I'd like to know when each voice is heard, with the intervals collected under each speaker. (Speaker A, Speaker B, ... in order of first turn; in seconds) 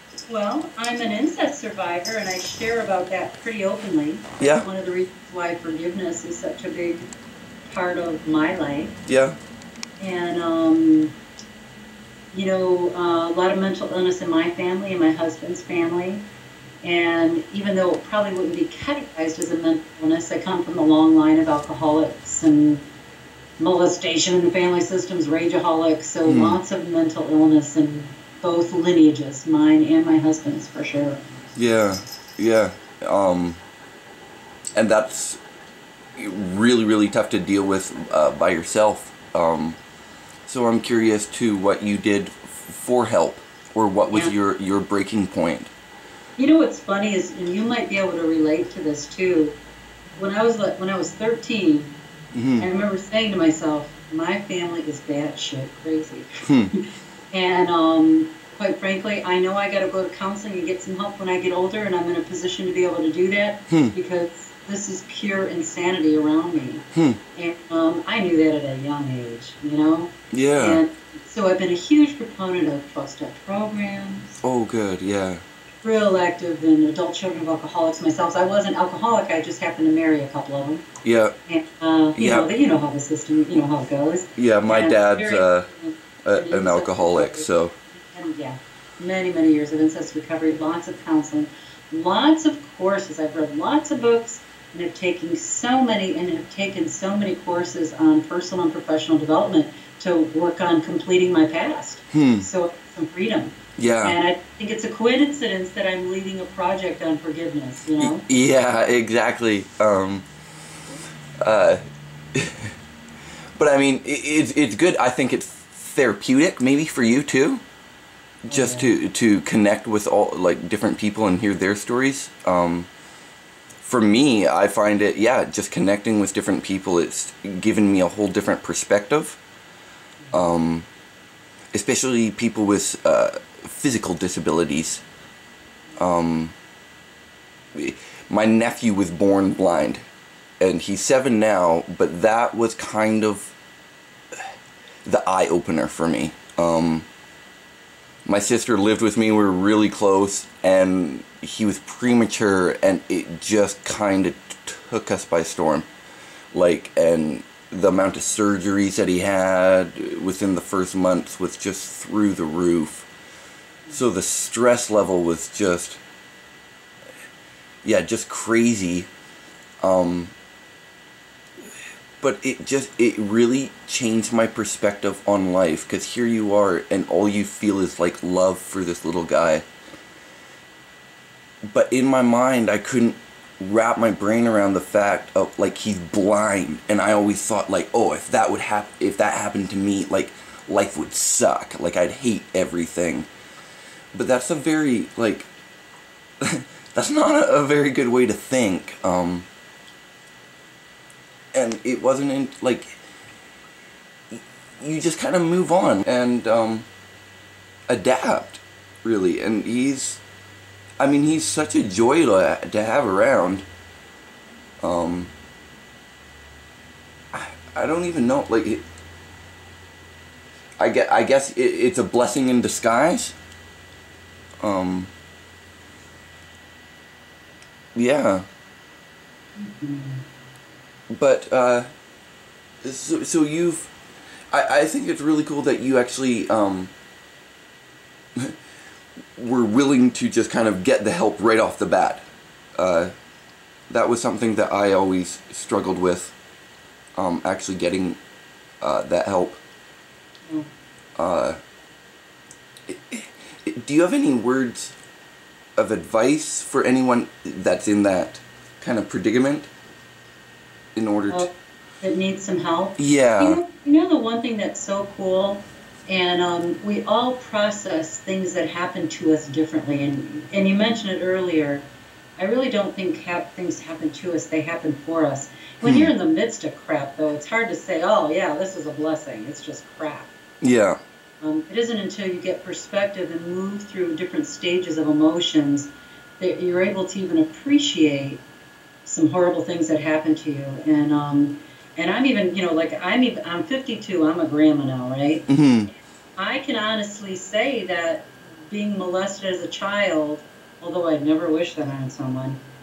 Speaker A: 0.3-7.1, 7.6-9.0, 10.0-11.1, 12.3-16.2, 16.8-22.8, 23.6-31.2, 46.4-49.6, 50.1-51.9, 52.6-74.4, 75.8-80.8, 81.5-108.3, 118.5-118.9, 229.6-230.2, 262.0-271.9, 272.4-280.3, 281.4-288.4, 289.1-295.5, 296.4-302.6
Speaker B: 4.4-4.7, 9.1-9.4, 26.2-26.6, 31.6-33.6, 34.8-35.4, 36.1-39.8, 40.5-45.7, 52.3-52.7, 56.5-56.7, 70.3-70.8, 74.4-75.4, 81.0-81.3, 82.2-82.5, 84.4-85.7, 86.2-87.7, 102.1-102.5, 103.8-104.2, 108.0-110.2, 111.4-111.8, 112.3-112.7, 113.6-117.6, 118.5-122.9, 123.8-129.4, 130.3-130.9, 131.7-135.0, 136.0-136.5, 137.7-140.0, 140.6-143.5, 145.1-147.1, 148.2-155.9, 156.5-163.1, 163.9-166.0, 167.8-169.1, 169.8-170.3, 172.2-179.7, 181.7-193.3, 194.1-195.5, 196.4-199.5, 201.5-202.9, 204.3-206.9, 207.9-210.2, 211.0-213.7, 214.8-215.3, 217.3-218.8, 220.8-223.4, 224.6-225.1, 227.9-228.4, 231.1-231.9, 232.8-233.9, 234.5-236.9, 239.4-242.2, 242.8-243.1, 243.9-246.3, 247.2-248.2, 248.8-249.6, 251.2-251.6, 252.9-254.9, 255.8-259.7, 260.9-261.5, 263.0-263.6, 275.8-276.1, 280.6-281.0, 295.5-295.9